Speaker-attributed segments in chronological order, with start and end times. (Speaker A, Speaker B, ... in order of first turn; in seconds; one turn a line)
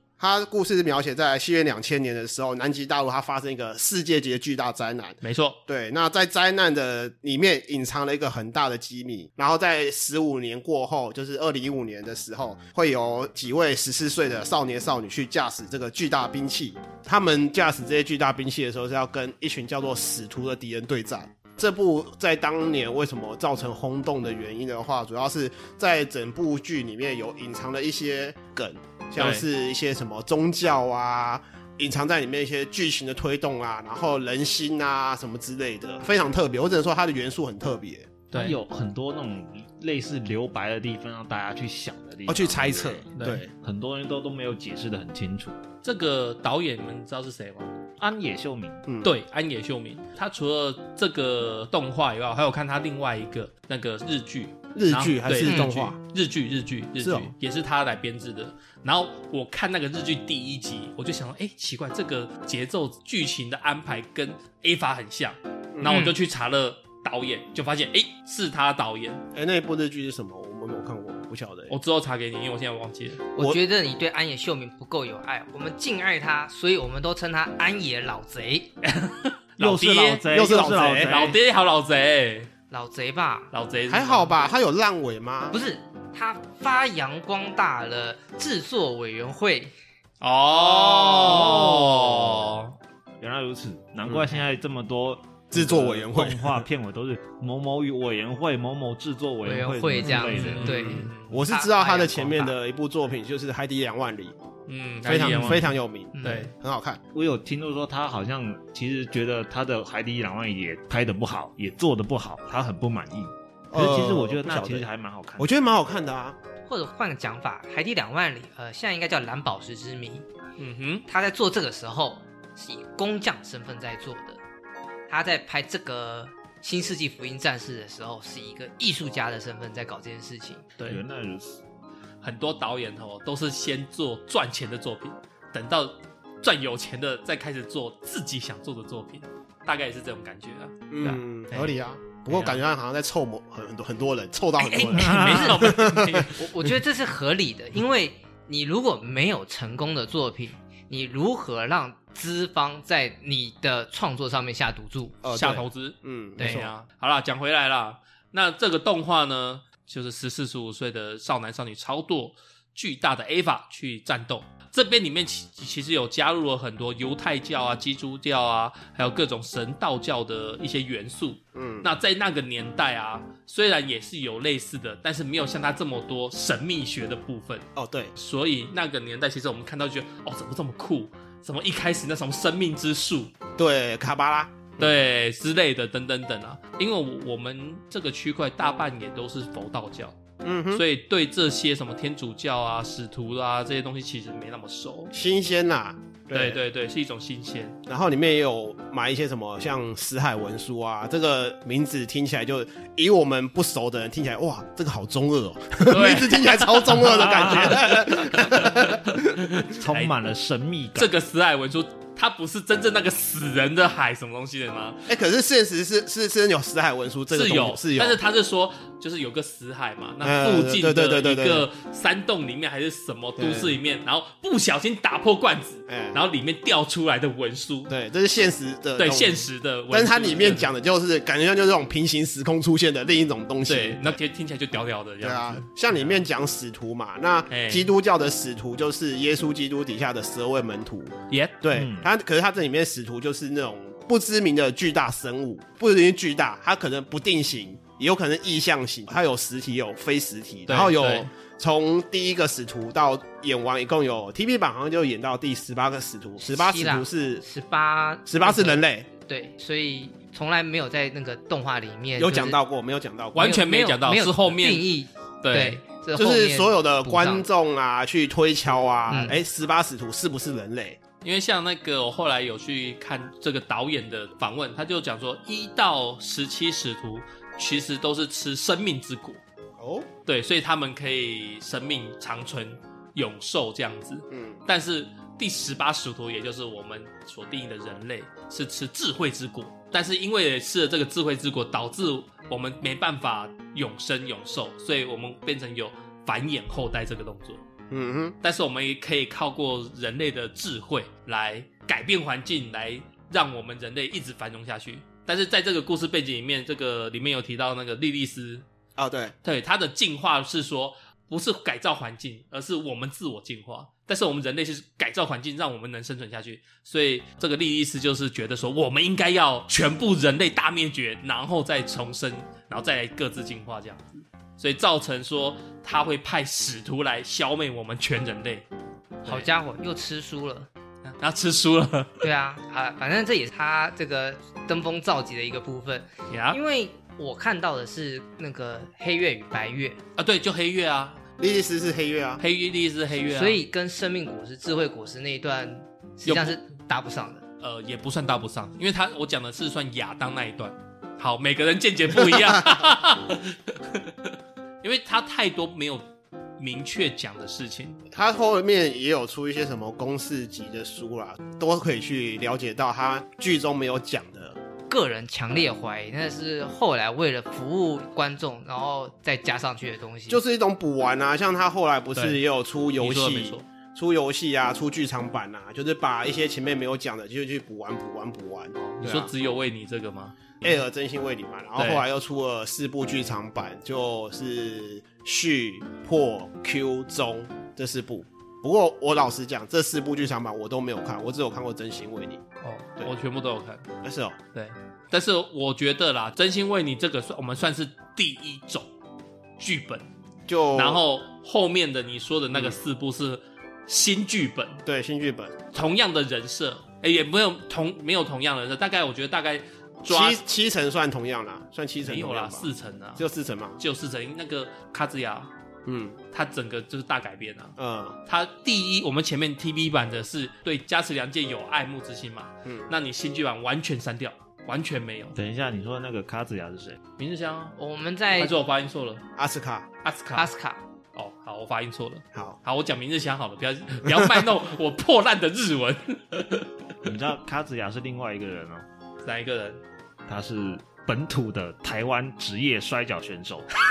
Speaker A: 0.2-38.1
Speaker B: 5.2-5.6
Speaker B: 29.2-29.4
Speaker B: 38.3-38.6
Speaker C: 38.3-45.6
Speaker A: 42.3-43.5
Speaker B: 43.2-43.4
Speaker B: 45.8-47.7
Speaker C: 48.0-48.8
Speaker A: 48.9-49.1
Speaker B: 49.0-69.2
Speaker A: 54.7-56.0
Speaker D: 55.4-55.7
Speaker A: 57.0-57.3
Speaker A: 65.7-66.1
Speaker D: 65.9-66.1
Speaker A: 69.3-71.8
Speaker B: 71.7-73.2
Speaker D: 73.3-78.7
Speaker B: 78.8-80.2
Speaker C: 79.6-81.4
Speaker A: 80.3-81.3
Speaker B: 80.9-82.5
Speaker D: 82.7-83.5
Speaker B: 83.5-84.3
Speaker A: 83.9-85.6
Speaker D: 85.5-89.7
Speaker B: 90.2-92.7
Speaker A: 90.7-91.7
Speaker C: 91.2-92.5
Speaker C: 93.2-100.9
Speaker A: 94.0-94.3
Speaker A: 95.5-96.6
Speaker D: 99.4-102.5
Speaker B: 100.0-101.3
Speaker A: 100.7-104.3
Speaker B: 104.7-106.5
Speaker A: 105.0-107.0
Speaker C: 105.2-105.6
Speaker D: 106.1-106.5
Speaker C: 107.1-115.5
Speaker A: 113.7-114.9
Speaker A: 115.4-116.4
Speaker D: 116.7-120.2
Speaker B: 120.6-121.0
Speaker D: 121.1-124.4
Speaker D: 125.1-130.6
Speaker C: 130.8-131.6
Speaker B: 132.2-141.7
Speaker A: 140.9-146.3
Speaker B: 142.3-142.6
Speaker B: 144.6-146.5
Speaker D: 144.7-145.8
Speaker C: 144.9-145.5
Speaker D: 146.3-155.2
Speaker A: 155.2-156.7
Speaker B: 155.3-183.3
Speaker D: 156.4-156.6
Speaker A: 171.5-171.9
Speaker A: 177.8-178.1
Speaker A: 183.6-184.9
Speaker B: 184.8-190.2
Speaker A: 190.4-190.8
Speaker B: 190.7-195.1
Speaker A: 195.1-196.6
Speaker B: 196.3-197.8
Speaker A: 197.9-209.5
Speaker B: 205.9-210.1
Speaker C: 207.0-208.1
Speaker C: 209.7-211.1
Speaker B: 210.9-215.0
Speaker A: 215.1-218.2
Speaker B: 217.3-227.9
Speaker A: 220.2-221.7
Speaker A: 223.4-223.8
Speaker A: 225.9-226.2
Speaker A: 227.9-234.2
Speaker B: 229.0-230.7
Speaker B: 233.7-236.2
Speaker A: 235.2-257.4
Speaker B: 237.5-237.9
Speaker B: 241.3-241.6
Speaker C: 241.7-242.1
Speaker B: 250.7-251.3
Speaker D: 256.4-262.6
Speaker A: 258.2-259.1
Speaker A: 262.2-263.6
Speaker B: 263.3-265.8
Speaker D: 263.4-267.5
Speaker A: 266.1-271.0
Speaker D: 269.1-269.4
Speaker B: 271.2-279.4
Speaker A: 279.8-280.1
Speaker B: 280.2-297.6
Speaker A: 284.3-284.6
Speaker A: 297.9-298.4
Speaker B: 298.4-308.6
Speaker A: 309.0-309.3
Speaker B: 309.4-328.6
Speaker D: 329.2-330.7
Speaker B: 331.1-332.2
Speaker D: 332.2-340.0
Speaker B: 336.3-336.6
Speaker B: 340.2-341.2
Speaker A: 341.4-342.4
Speaker B: 342.4-343.6
Speaker D: 343.3-347.4
Speaker B: 346.2-346.5
Speaker B: 347.6-356.0
Speaker B: 356.6-358.0
Speaker A: 358.1-364.6
Speaker D: 364.9-370.4
Speaker A: 370.3-379.3
Speaker B: 373.0-373.6
Speaker B: 378.8-380.5
Speaker A: 380.6-392.4
Speaker B: 381.8-382.0
Speaker B: 392.6-393.9
Speaker A: 394.0-394.4
Speaker B: 394.5-398.9
Speaker B: 399.6-400.1
Speaker A: 400.5-401.0
Speaker B: 400.7-404.8
Speaker A: 402.5-402.8
Speaker A: 404.8-405.6
Speaker B: 405.7-410.4
Speaker A: 410.0-413.8
Speaker B: 412.0-413.2
Speaker B: 413.8-415.5
Speaker A: 415.9-416.2
Speaker B: 416.3-417.7
Speaker A: 417.8-418.2
Speaker B: 418.2-425.4
Speaker C: 425.3-427.0
Speaker B: 427.2-427.8
Speaker D: 427.8-428.5
Speaker B: 428.3-429.2
Speaker A: 429.4-429.9
Speaker B: 430.0-430.5
Speaker D: 430.3-430.8
Speaker B: 431.1-436.7
Speaker A: 434.1-434.3
Speaker C: 437.0-438.8
Speaker B: 439.2-439.8
Speaker C: 440.3-443.7